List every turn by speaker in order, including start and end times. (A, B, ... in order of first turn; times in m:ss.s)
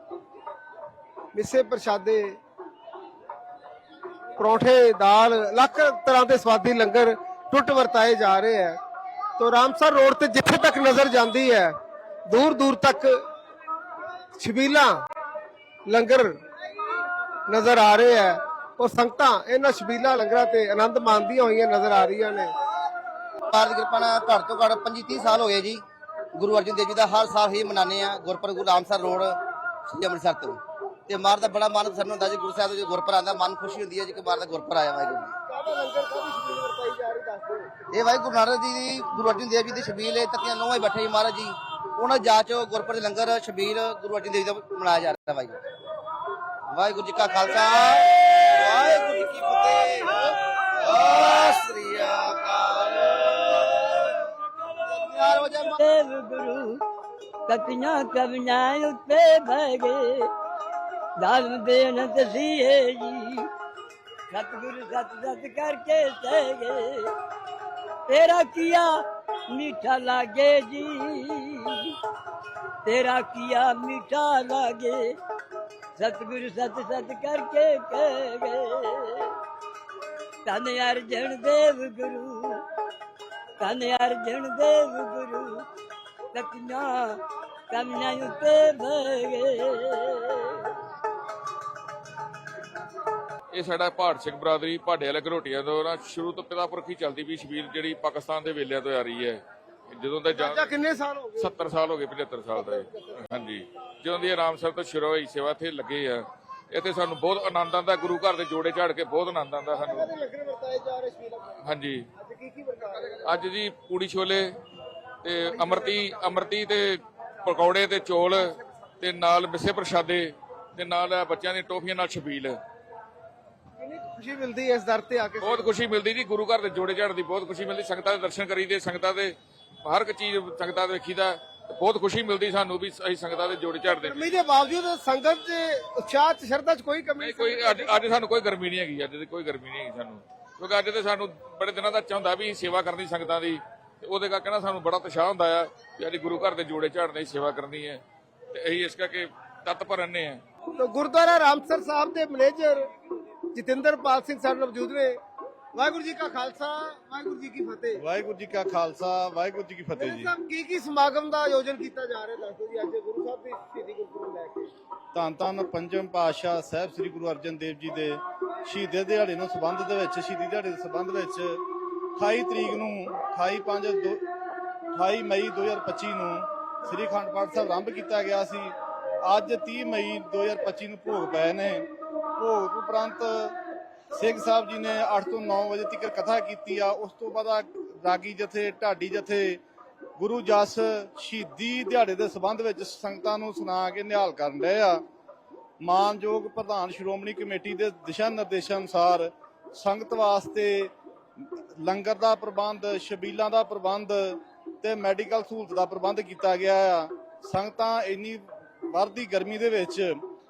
0:01.3-0:02.4 A
0:04.4-0:08.8 A
0:09.4-0:11.7 A
0:12.3-0:13.2 A
0:14.4-0:15.0 A
0:15.9-0:16.3 A
0:17.5-0:22.5 A
0:23.5-0:25.8 B
0:26.4-0:35.4 B
0:35.5-0:37.7 A
0:37.9-0:45.6 B
0:46.7-0:54.1 B
0:54.9-0:55.8 B
0:55.8-0:56.8 C
0:57.5-1:00.3 C
1:01.2-1:03.5 C
1:04.3-1:07.1 C
1:08.1-1:12.0 C
1:12.8-1:15.2 C
1:16.0-1:19.4 C
1:20.5-1:22.6 C
1:23.6-1:25.7 C
1:26.3-1:30.8 C
1:33.5-1:40.6 D
1:40.3-1:41.5 A
1:41.4-1:50.1 D
1:42.5-1:43.4 A
1:49.8-1:51.6 A
1:51.7-1:52.0 D
1:52.2-1:53.2 A
1:53.3-1:54.5 D
1:55.2-1:58.5 D
1:59.0-2:02.6 D
2:03.8-2:05.8 A
2:05.4-2:14.3 D
2:14.0-2:18.1 A
2:17.2-2:30.4 D
2:30.8-2:32.8 A
2:33.5-2:35.2 A
2:35.8-2:38.0 A
2:38.0-2:40.3 E
2:40.0-2:44.7 A
2:45.1-2:51.6 E
2:52.2-2:54.2 E
2:54.9-3:03.6 E
3:04.2-3:09.6 E
3:10.2-3:15.0 E
3:15.8-3:20.9 E
3:21.8-3:30.2 E